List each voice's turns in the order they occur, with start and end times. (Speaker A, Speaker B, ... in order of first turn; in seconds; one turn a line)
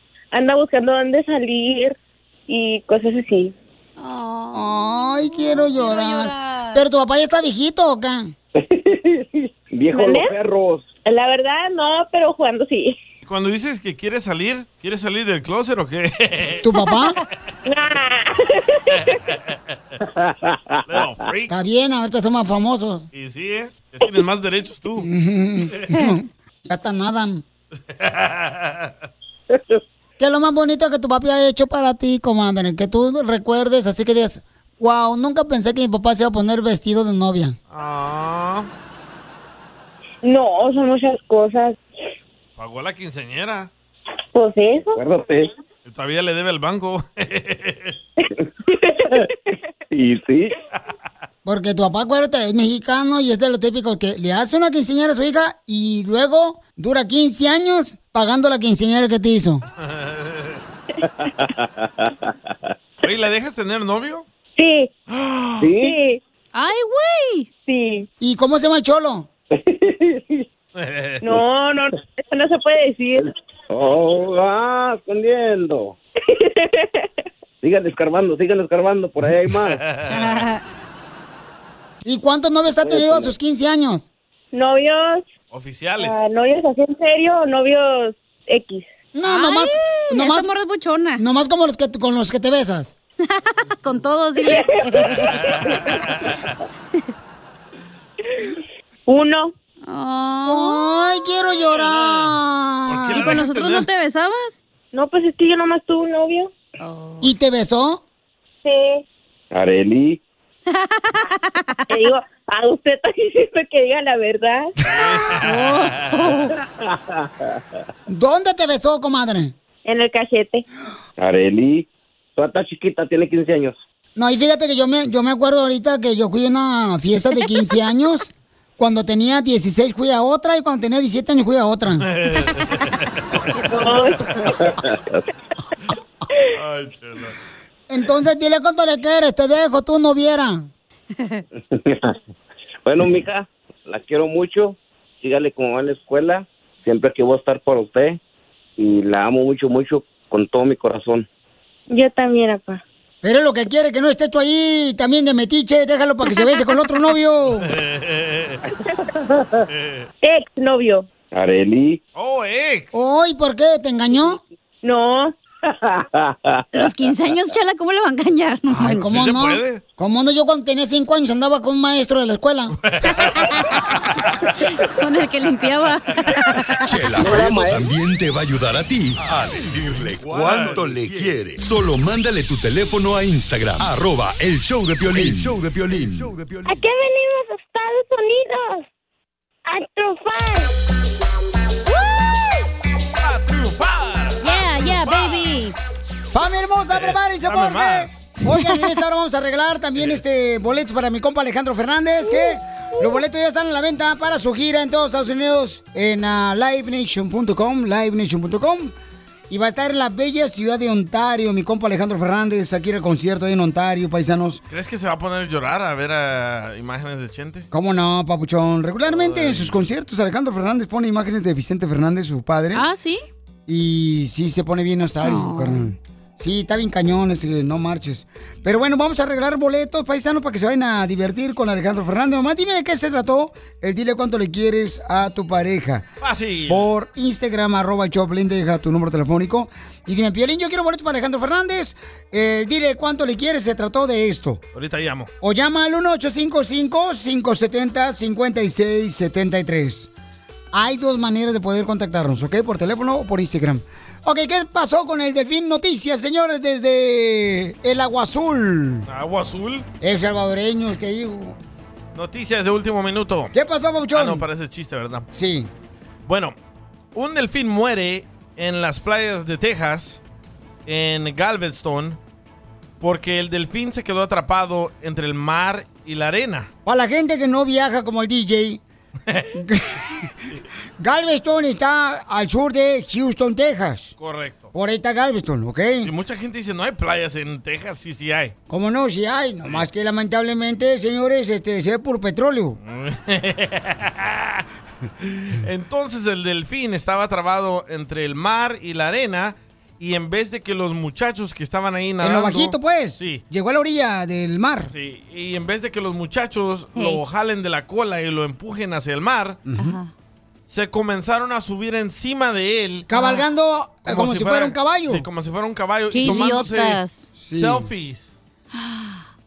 Speaker A: 0.3-1.9
Speaker A: 2.5-3.5
Speaker B: 4.0-6.8
Speaker C: 4.5-8.3
Speaker D: 8.5-10.9
Speaker A: 9.9-10.3
Speaker A: 11.0-12.9
Speaker E: 13.2-16.6
Speaker C: 16.6-17.2
Speaker A: 17.6-18.5
Speaker E: 18.9-19.7
Speaker D: 20.0-20.8
Speaker E: 20.9-21.5
Speaker C: 21.5-23.1
Speaker E: 23.1-25.1
Speaker C: 25.0-27.4
Speaker E: 27.9-28.9
Speaker D: 29.5-29.8
Speaker C: 30.2-37.5
Speaker E: 37.7-38.7
Speaker A: 40.2-41.8
Speaker E: 42.6-43.7
Speaker A: 44.3-45.0
Speaker D: 45.0-45.5
Speaker E: 45.9-48.0
Speaker D: 49.9-50.5
Speaker C: 51.4-59.6
Speaker E: 59.8-60.6
Speaker D: 61.0-62.5
Speaker E: 63.0-64.2
Speaker A: 64.5-64.9
Speaker E: 65.1-65.7
Speaker D: 65.6-66.0
Speaker A: 65.8-66.2
Speaker B: 66.5-67.5
Speaker A: 67.7-68.1
Speaker C: 68.2-69.3
Speaker D: 69.5-70.4
Speaker E: 70.8-71.3
Speaker A: 71.2-73.3
Speaker D: 73.7-76.0
Speaker A: 76.4-76.9
Speaker D: 77.6-79.8
Speaker E: 79.6-80.5
Speaker B: 80.1-80.6
Speaker C: 82.0-84.0
Speaker D: 82.8-83.3
Speaker A: 84.5-85.3
Speaker E: 85.5-86.2
Speaker A: 86.0-88.9
Speaker C: 89.1-90.5
Speaker B: 89.2-91.2
Speaker C: 91.2-92.9
Speaker B: 93.2-95.5
Speaker E: 95.1-96.4
Speaker A: 99.1-99.5
Speaker B: 99.8-101.0
Speaker C: 100.5-103.4
Speaker E: 102.0-102.3
Speaker E: 102.9-103.9
Speaker B: 103.1-104.6
Speaker A: 104.9-106.5
Speaker B: 106.8-107.3
Speaker C: 107.2-108.0
Speaker A: 108.6-109.0
Speaker D: 109.5-110.2
Speaker B: 110.7-112.0
Speaker A: 111.9-114.7
Speaker E: 114.8-116.3
Speaker B: 115.4-116.5
Speaker D: 116.8-117.6
Speaker C: 118.1-119.5
Speaker A: 119.8-120.6
Speaker D: 121.2-123.8
Speaker C: 124.2-132.1
Speaker E: 132.1-134.3
Speaker A: 133.7-134.4
Speaker D: 134.6-135.2
Speaker E: 136.5-137.3
Speaker C: 137.9-140.7
Speaker B: 141.2-141.4
Speaker D: 141.7-142.2
Speaker D: 142.8-148.2
Speaker D: 148.8-151.3
Speaker A: 151.9-152.8
Speaker C: 153.2-157.7
Speaker E: 157.6-158.6
Speaker D: 159.1-159.6
Speaker E: 159.7-160.1
Speaker A: 160.2-161.1
Speaker D: 161.3-162.0
Speaker E: 162.2-162.9
Speaker C: 162.9-164.4
Speaker A: 164.8-165.3
Speaker D: 165.7-166.6
Speaker B: 166.7-169.1
Speaker C: 168.7-172.8
Speaker E: 168.8-169.8
Speaker E: 172.8-173.5
Speaker B: 173.4-173.7
Speaker B: 174.6-176.9
Speaker F: 176.9-186.7
Speaker D: 177.2-177.9
Speaker E: 180.2-181.2
Speaker G: 186.6-188.8
Speaker G: 189.7-190.7
Speaker E: 193.2-195.5
Speaker B: 194.4-195.8
Speaker C: 196.3-208.9
Speaker E: 196.9-198.4
Speaker C: 209.5-214.6
Speaker E: 214.7-217.7
Speaker C: 217.7-222.8
Speaker E: 219.1-219.8
Speaker B: 222.7-223.2
Speaker C: 223.7-236.1
Speaker B: 225.2-225.8
Speaker E: 236.2-236.9
Speaker C: 236.7-244.6
Speaker E: 244.7-245.3
Speaker C: 245.4-250.1
Speaker C: 250.7-259.1
Speaker E: 259.1-259.9
Speaker C: 260.0-261.6
Speaker E: 262.1-263.5
Speaker C: 263.5-264.4
Speaker E: 264.1-265.2
Speaker C: 265.3-265.7
Speaker E: 266.3-266.5
Speaker E: 267.1-270.2
Speaker E: 270.9-272.2
Speaker E: 273.0-276.7
Speaker C: 276.9-278.8
Speaker E: 279.3-279.5
Speaker C: 279.5-280.3
Speaker C: 281.0-284.1
Speaker E: 284.2-284.7
Speaker C: 284.7-286.1
Speaker E: 286.0-288.5
Speaker C: 288.7-292.8
Speaker E: 292.8-294.6
Speaker E: 295.2-303.4
Speaker C: 302.2-304.9
Speaker E: 304.9-309.6
Speaker B: 306.9-307.2
Speaker C: 309.6-310.0
Speaker B: 309.8-310.1
Speaker E: 310.7-313.1
Speaker C: 313.1-315.2
Speaker B: 313.1-313.4
Speaker E: 314.1-318.4
Speaker B: 316.1-317.3
Speaker C: 316.1-316.6
Speaker C: 317.4-317.9
Speaker B: 318.7-319.2